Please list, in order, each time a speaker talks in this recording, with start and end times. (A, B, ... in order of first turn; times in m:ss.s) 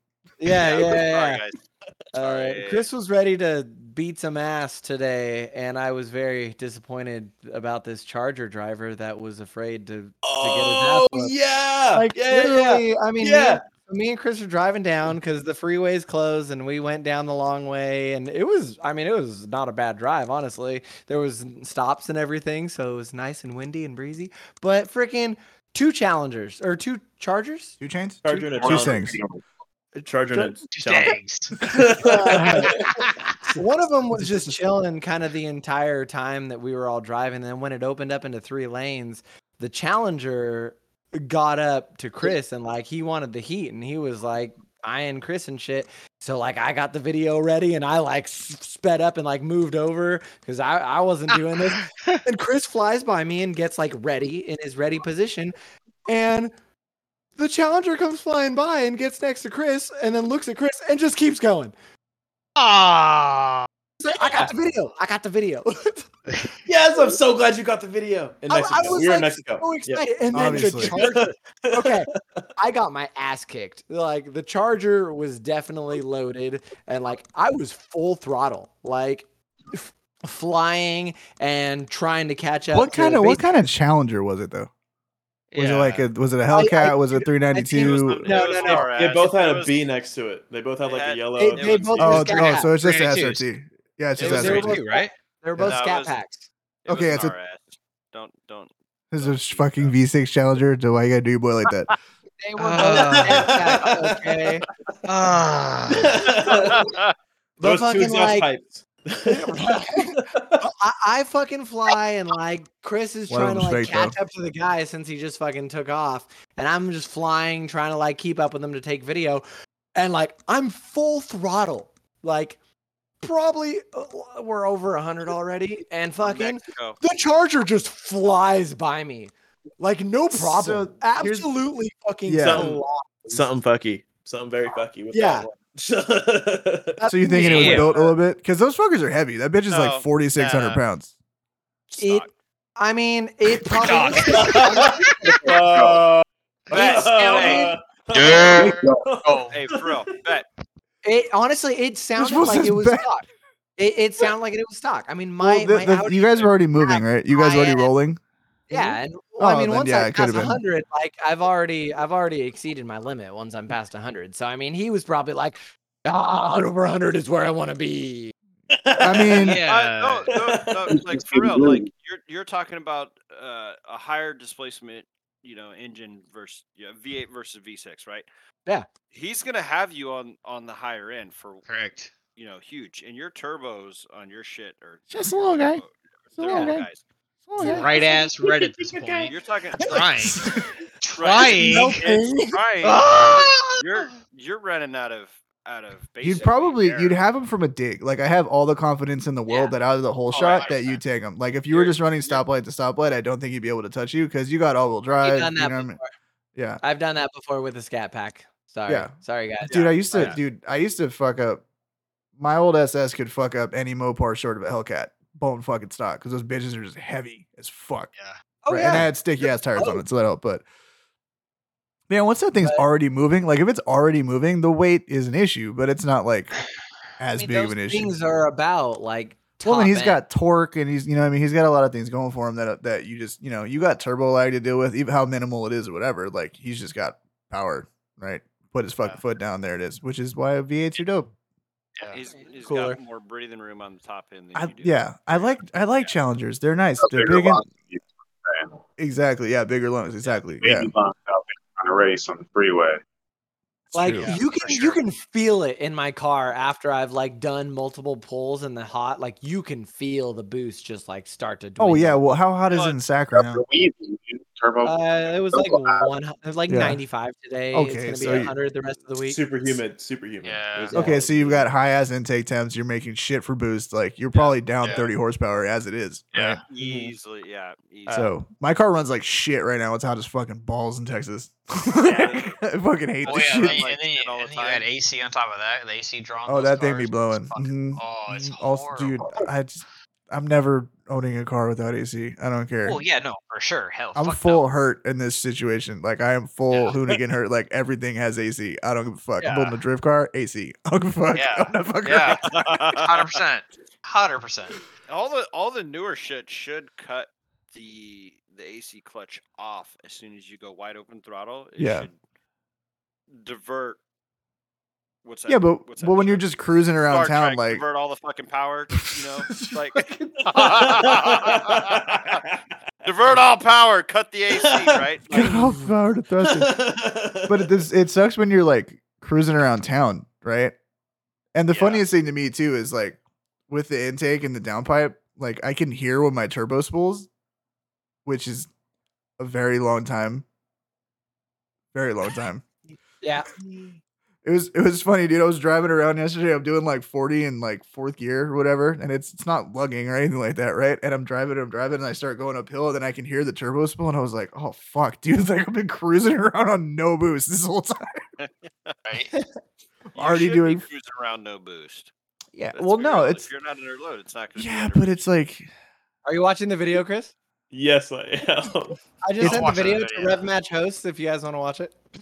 0:00.4-0:01.4 A
0:00.5-0:01.6 B
0:02.2-0:02.9 B
0:02.2-0:11.3 A
0:10.2-0:13.7 C
0:11.9-0:27.8 A
0:27.8-0:29.2 D
0:28.2-0:29.2 C
0:28.6-0:29.4 E
0:30.0-0:33.6 C
0:30.7-0:31.8 F
0:32.0-0:32.8 A
0:32.3-0:33.2 F
0:33.5-0:55.6 A
0:51.8-0:52.2 F
0:56.1-0:56.5 A
0:57.4-1:01.8 A
1:02.6-1:03.7 F
1:04.0-1:06.1 A
1:06.6-1:12.5 C
1:08.5-1:23.6 A
1:10.3-1:11.0 D
1:22.7-1:24.7 D
1:25.5-1:26.1 F
1:25.6-1:28.3 D
1:26.5-1:28.9 A
1:27.8-1:29.9 B
1:28.5-1:32.1 C
1:30.8-1:32.5 B
1:31.4-1:32.7 A
1:32.0-1:34.8 D
1:32.5-1:33.5 F
1:34.2-1:36.5 A
1:34.2-1:34.6 B
1:34.2-1:35.1 F
1:35.6-1:36.2 B
1:36.8-1:39.9 B
1:36.9-1:37.3 D
1:39.1-1:41.9 D
1:42.4-1:44.6 A
1:42.6-1:43.5 F
1:43.0-1:44.4 C
1:45.0-1:46.3 F
1:45.9-1:46.9 C
1:46.5-1:47.1 B
1:47.6-1:48.5 A
1:47.6-1:50.6 C
1:49.3-1:59.4 A
1:53.3-1:54.2 D
2:00.0-2:02.6 A
2:03.2-2:13.5 A
2:06.2-2:07.0 B
2:10.3-2:11.5 D
2:12.3-2:12.8 D
2:12.4-2:17.0 C
2:15.1-2:15.5 A
2:17.0-2:18.0 A
2:17.1-2:21.1 D
2:17.4-2:17.9 F
2:17.6-2:18.0 C
2:19.7-2:20.8 B
2:21.9-2:22.3 B
2:22.0-2:25.5 A
2:23.6-2:25.4 F
2:24.3-2:30.2 C
2:25.4-2:26.1 E
2:26.7-2:27.5 F
2:26.7-2:27.7 B
2:26.9-2:27.8 A
2:28.1-2:29.6 F
2:28.5-2:29.0 E
2:29.5-2:30.5 B
2:31.0-2:33.3 A
2:32.2-2:33.1 D
2:33.8-2:37.9 A
2:35.4-2:38.2 D
2:38.7-2:48.3 A
2:39.4-2:40.6 D
2:48.7-2:49.5 C
2:49.0-2:49.6 D
2:49.4-2:50.3 F
2:49.5-2:58.3 B
2:50.3-2:51.0 C
2:50.9-2:51.9 E
2:59.1-3:01.7 B
3:01.7-3:02.1 F
3:02.3-3:07.0 B
3:05.1-3:05.8 D
3:06.4-3:06.8 D
3:06.4-3:06.8 A
3:07.5-3:07.9 D
3:07.6-3:08.0 A
3:07.6-3:10.5 F
3:09.3-3:10.1 B
3:10.2-3:10.5 D
3:11.0-3:12.0 F
3:11.2-3:17.2 B
3:11.4-3:12.6 A
3:12.8-3:14.0 F
3:16.2-3:26.0 D
3:20.3-3:21.0 B
3:21.7-3:22.4 B
3:25.2-3:26.1 A
3:26.6-3:26.8 D
3:26.8-3:30.4 A
3:28.9-3:29.1 D
3:29.7-3:30.4 B
3:29.7-3:31.6 D
3:32.4-3:38.1 D
3:38.6-3:39.2 A
3:38.7-3:40.6 D
3:39.7-3:40.0 A
3:42.1-3:46.6 D
3:47.2-3:48.1 D
3:47.4-3:50.2 A
3:49.6-4:01.3 D
4:02.0-4:06.1 B
4:02.6-4:03.0 A
4:04.6-4:07.6 D
4:07.0-4:08.8 E
4:09.0-4:10.9 D
4:10.6-4:13.0 E
4:13.9-4:14.4 D
4:13.9-4:22.3 A
4:14.1-4:15.0 F
4:21.8-4:23.6 D
4:22.7-4:23.0 B
4:23.3-4:25.0 E
4:24.8-4:29.8 A
4:25.5-4:26.1 E
4:26.7-4:27.0 D
4:27.7-4:28.5 D
4:29.3-4:31.7 C
4:30.4-4:31.0 F
4:30.9-4:31.2 A
4:30.9-4:36.6 D
4:34.8-4:35.1 F
4:36.3-4:36.6 F
4:36.7-4:38.3 B
4:36.8-4:37.2 C
4:38.1-4:43.9 D
4:42.0-4:42.6 B
4:42.0-4:42.4 F
4:43.2-4:44.9 B
4:43.2-4:49.2 F
4:46.5-4:53.0 D
4:52.8-4:54.7 F
4:54.2-5:02.7 D
4:59.4-4:59.8 F
5:01.3-5:04.8 F
5:02.3-5:03.1 B
5:05.1-5:12.2 B
5:11.8-5:12.1 D
5:13.3-5:14.0 B
5:15.2-5:16.5 B
5:15.5-5:17.8 D
5:17.1-5:22.4 B
5:19.2-5:19.8 D
5:20.5-5:22.6 C
5:23.0-5:25.4 B
5:24.5-5:25.7 C
5:25.3-5:26.7 D
5:26.4-5:27.8 C
5:27.5-5:30.8 D
5:31.6-5:37.3 D
5:31.7-5:32.0 B
5:38.2-5:38.7 D
5:39.4-5:40.4 D
5:41.9-5:42.6 D
5:43.2-5:43.6 A
5:44.4-5:58.2 D
5:58.4-5:59.0 B
5:59.1-5:59.3 F
6:00.2-6:00.9 D
6:00.2-6:02.1 B
6:02.6-6:03.5 D
6:02.7-6:05.3 B
6:04.6-6:05.7 D
6:06.2-6:07.3 A
6:07.7-6:09.0 C
6:09.2-6:12.0 A
6:09.4-6:09.7 D
6:09.4-6:10.4 F